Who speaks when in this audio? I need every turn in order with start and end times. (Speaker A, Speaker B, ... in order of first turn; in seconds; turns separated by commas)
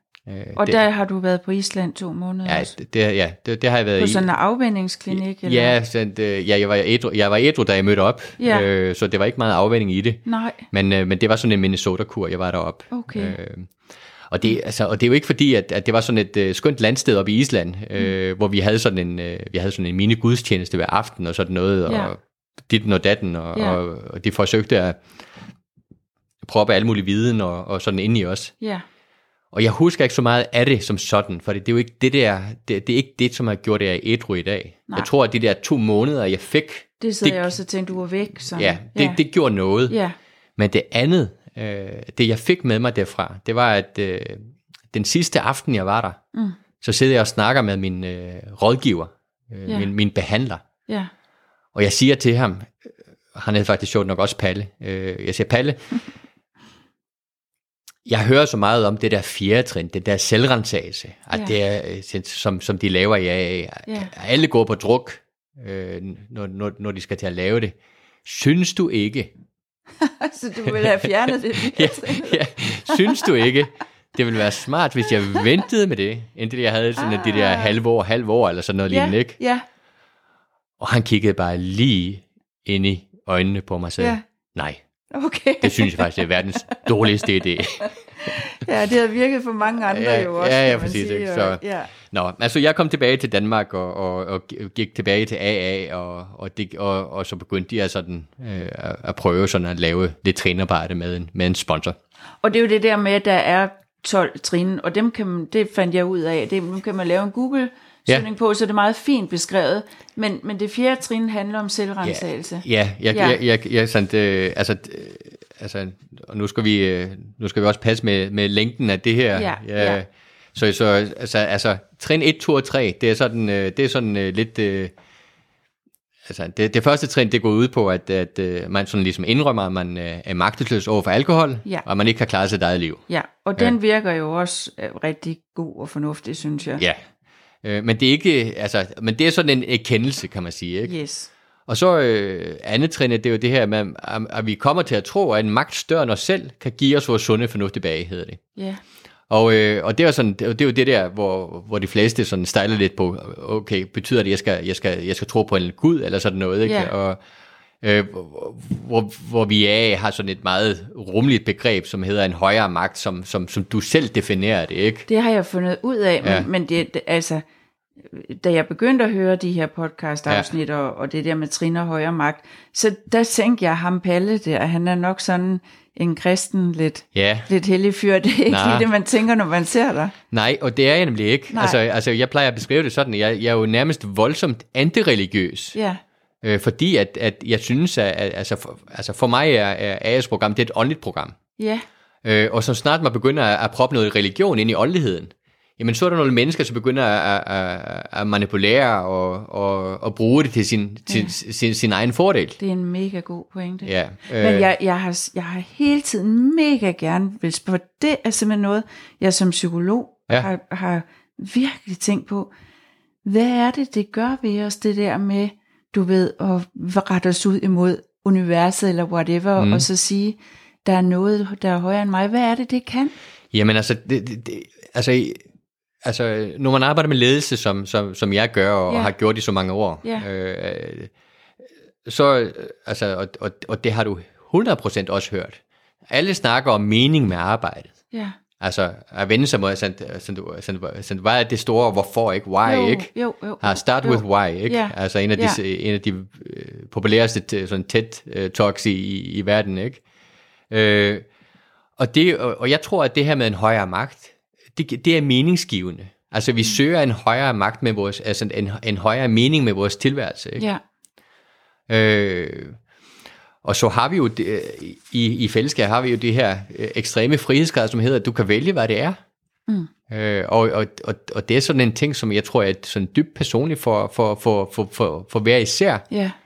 Speaker A: 0.3-0.8, Speaker B: 0.6-2.7, Speaker A: 2.4-4.3, Speaker B: 4.0-5.8, Speaker A: 5.1-13.7, Speaker B: 8.4-8.7, Speaker B: 10.2-10.6, Speaker B: 12.9-13.4, Speaker A: 14.3-22.2, Speaker B: 21.9-22.1, Speaker A: 22.7-25.0, Speaker B: 23.5-23.8, Speaker A: 26.4-28.5, Speaker A: 29.5-37.5, Speaker B: 37.0-39.2, Speaker A: 38.5-40.0, Speaker B: 39.9-40.1, Speaker A: 40.6-46.2, Speaker A: 46.8-50.6, Speaker A: 51.7-52.8, Speaker A: 53.3-55.8, Speaker A: 58.0-69.3, Speaker B: 63.9-64.1, Speaker B: 70.0-73.5, Speaker A: 70.7-79.4, Speaker B: 77.0-77.8, Speaker B: 78.9-79.6, Speaker A: 80.8-84.8, Speaker B: 85.1-91.9, Speaker A: 85.6-87.9, Speaker A: 89.8-102.0, Speaker B: 102.4-113.4, Speaker A: 112.0-124.9, Speaker B: 119.3-120.0, Speaker A: 126.2-133.0, Speaker B: 133.1-136.8, Speaker A: 137.6-140.9, Speaker B: 140.8-141.3, Speaker A: 141.7-148.4, Speaker A: 149.3-157.2, Speaker B: 156.7-156.9, Speaker A: 157.8-165.1, Speaker B: 165.1-167.4, Speaker A: 166.2-166.5, Speaker B: 168.0-180.1, Speaker A: 177.1-177.5, Speaker A: 178.5-178.9, Speaker A: 180.3-185.8, Speaker B: 181.5-181.8, Speaker B: 185.7-186.0, Speaker A: 186.4-191.4, Speaker B: 191.6-191.8, Speaker A: 192.2-202.6, Speaker B: 201.1-201.3, Speaker B: 202.6-212.5, Speaker A: 203.8-204.7, Speaker B: 213.2-223.1, Speaker A: 219.6-219.9, Speaker A: 223.5-225.4, Speaker A: 226.0-231.1, Speaker A: 232.1-237.9, Speaker B: 238.1-238.4, Speaker A: 238.6-243.1, Speaker B: 242.6-245.6, Speaker A: 243.6-250.0, Speaker A: 250.7-251.2, Speaker A: 252.0-260.6, Speaker A: 261.9-262.8, Speaker A: 263.6-269.2, Speaker A: 270.1-276.1, Speaker B: 276.1-276.4